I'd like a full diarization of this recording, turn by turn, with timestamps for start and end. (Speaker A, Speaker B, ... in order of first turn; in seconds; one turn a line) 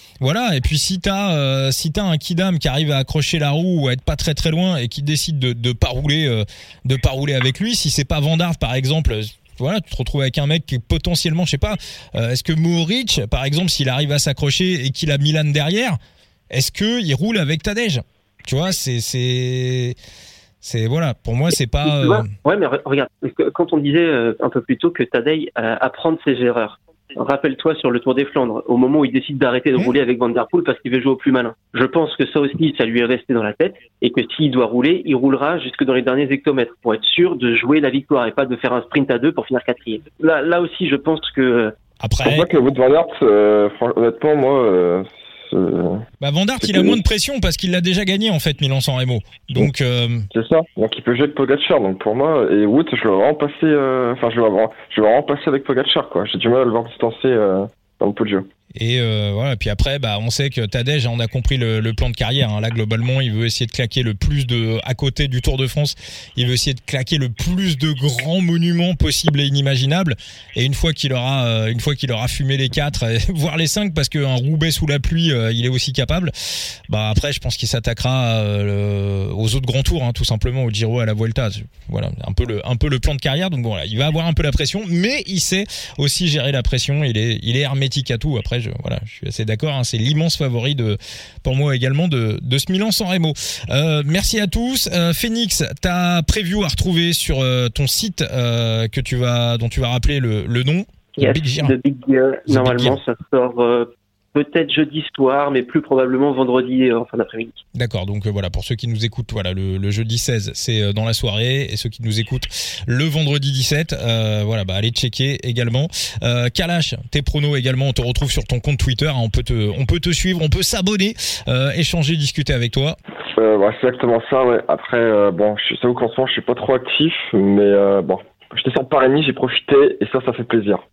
Speaker A: 0.2-16.0
Speaker A: 16.5-19.9
Speaker A: 20.6-22.3
Speaker B: 21.8-41.7
Speaker A: 42.0-42.5
Speaker C: 42.2-46.0
Speaker A: 46.2-50.3
Speaker C: 46.6-47.0
Speaker C: 50.3-58.5
Speaker A: 58.8-76.3
Speaker A: 76.9-101.7
Speaker B: 101.2-107.6
Speaker A: 102.5-103.0
Speaker A: 107.7-123.0
Speaker C: 123.3-130.8